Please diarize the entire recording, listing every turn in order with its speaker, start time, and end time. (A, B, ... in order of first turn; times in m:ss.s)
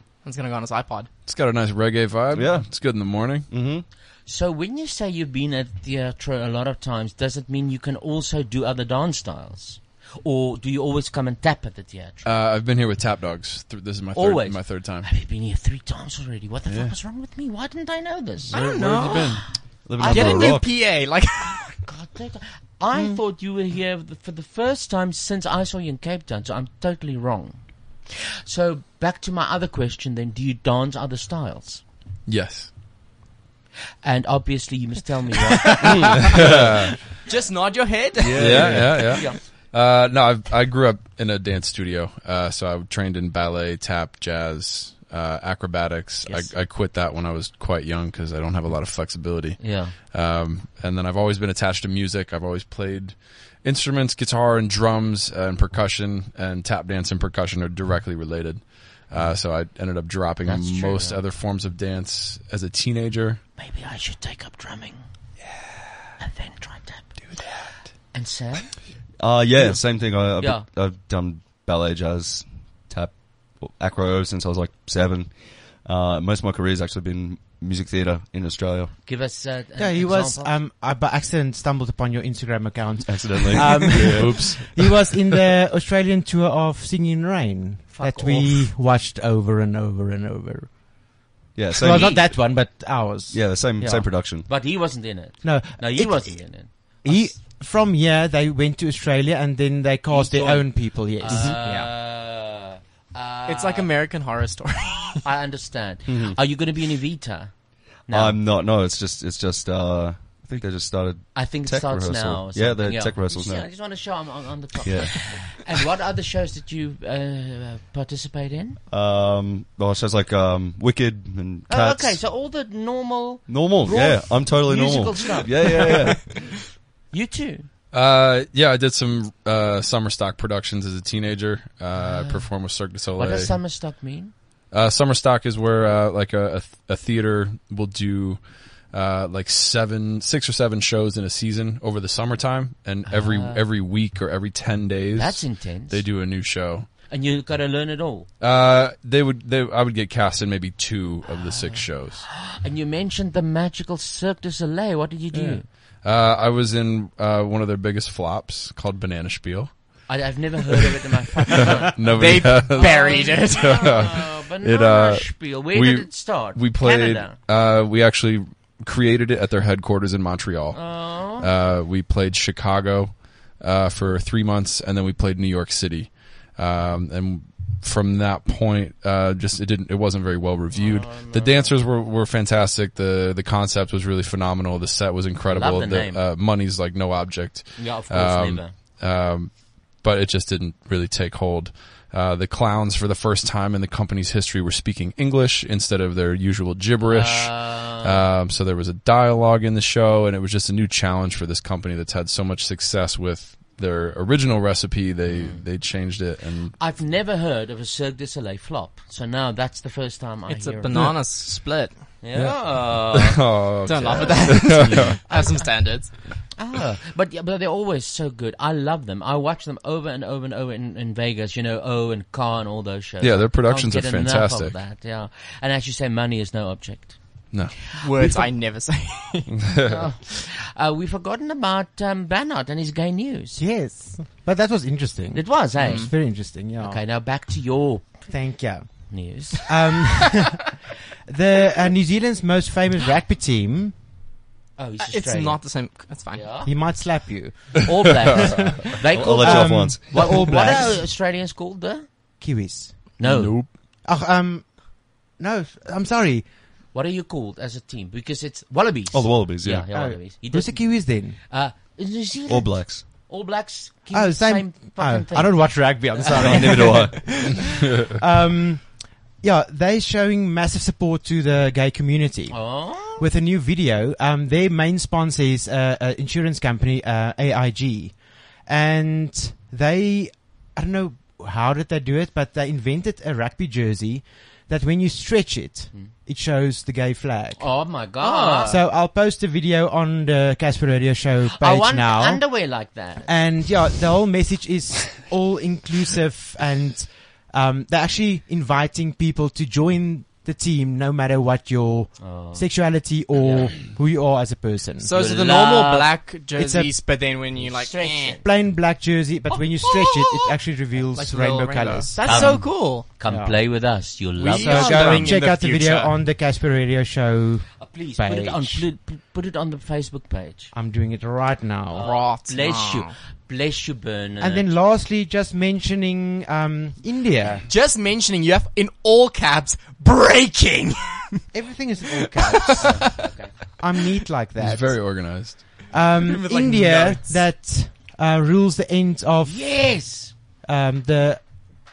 0:00.2-0:01.1 A
0:01.2-0:03.5 B
0:02.3-0:03.9 C
0:04.3-0:12.3 D
0:12.2-0:15.1 B
0:14.2-0:19.4 D
0:16.7-0:17.0 B
0:18.5-0:19.4 B
0:18.5-0:19.5 A
0:19.8-0:20.8 C
0:20.0-0:20.6 D
0:20.0-0:21.7 A
0:21.4-0:31.8 D
0:32.3-0:32.7 B
0:34.0-0:36.3 D
0:35.9-0:36.7 C
0:36.2-0:37.0 B
0:37.3-0:39.0 A
0:38.2-0:39.2 C
0:38.4-1:03.4 B
0:38.5-0:39.4 D
0:46.2-0:46.5 D
0:49.6-0:50.0 D
1:00.4-1:01.2 D
1:03.6-1:05.0 D
1:06.2-1:07.2 D
1:08.1-1:08.8 D
1:09.2-1:18.9 C
1:09.6-1:10.7 D
1:19.0-1:20.5 D
1:19.8-1:31.1 E
1:23.0-1:24.8 C
1:24.2-1:24.7 B
1:27.9-1:28.7 D
1:31.6-1:32.6 C
1:31.7-1:34.1 E
1:31.9-1:32.2 D
1:33.3-1:34.5 C
1:34.2-1:37.4 D
1:35.4-1:41.6 E
1:40.1-1:43.9 D
1:41.6-1:41.9 A
1:43.5-1:45.2 A
1:45.2-1:48.4 D
1:46.1-1:46.4 C
1:48.1-1:53.8 C
1:51.3-1:58.8 D
1:54.8-1:55.5 C
1:58.9-2:02.2 C
2:01.7-2:06.4 D
2:03.4-2:06.4 C
2:07.1-2:07.7 D
2:07.9-2:13.7 B
2:12.0-2:14.3 D
2:14.7-2:26.9 B
2:23.1-2:23.7 D
2:25.2-2:26.0 D
2:27.1-2:28.3 D
2:28.4-2:32.2 B
2:31.3-2:35.7 D
2:35.3-2:40.0 B
2:40.1-2:47.4 D
2:41.5-3:26.8 B
2:42.1-2:43.9 A
2:50.7-2:51.5 D
3:00.7-3:01.8 D
3:05.5-3:06.2 D
3:07.8-3:08.8 D
3:17.0-3:18.3 D
3:25.3-3:25.7 D
3:26.8-3:31.0 D
3:30.5-3:32.0 A
3:30.9-3:31.3 B
3:32.2-3:33.4 D
3:32.3-3:35.2 B
3:33.9-3:36.2 A
3:34.0-3:35.6 D
3:36.6-3:48.5 D
3:43.2-3:44.8 B
3:47.5-3:47.8 B
3:47.9-3:49.6 A
3:49.6-3:50.1 B
3:49.9-3:53.6 D
3:53.6-3:57.0 E
3:55.4-3:56.2 D
3:55.8-3:56.1 A
3:56.8-3:58.3 D
3:58.3-4:00.6 E
3:59.1-3:59.7 D
4:01.3-4:04.0 E
4:04.8-4:05.6 D
4:05.0-4:06.4 A
4:06.3-4:06.7 D
4:06.6-4:07.8 E
4:07.8-4:12.1 D
4:08.4-4:11.1 E
4:09.1-4:10.5 C
4:12.4-4:13.2 E
4:13.2-4:13.7 D
4:13.2-4:13.8 B
4:13.8-4:16.5 E
4:16.9-4:27.3 D
4:19.1-4:19.9 C
4:19.9-4:21.4 E
4:22.5-4:23.1 C
4:24.1-4:47.8 E
4:26.3-4:27.3 C
4:32.5-4:33.3 D
4:47.6-4:48.8 D
4:48.2-4:48.7 A
4:48.6-4:52.5 E
4:51.6-4:53.4 D
4:53.2-5:05.1 E
5:02.2-5:02.7 D
5:03.4-5:04.0 D
5:05.0-5:08.4 A
5:05.1-5:06.1 D
5:06.5-5:07.0 E
5:07.6-5:08.4 D
5:08.4-5:13.8 E
5:09.5-5:10.5 A
5:11.1-5:13.1 A
5:12.2-5:15.2 D
5:14.4-5:16.2 A
5:14.6-5:18.9 E
5:17.7-5:20.7 D
5:20.7-5:22.1 E
5:21.9-5:24.7 D
5:22.0-5:23.1 A
5:24.4-5:27.6 E
5:27.7-5:31.4 A
5:31.5-5:33.2 E
5:32.2-5:33.1 A
5:32.8-5:33.6 D
5:33.8-5:35.2 E
5:34.6-5:35.9 B
5:35.8-5:39.9 E
5:36.2-5:37.4 A
5:39.4-5:40.4 D
5:40.6-5:41.7 E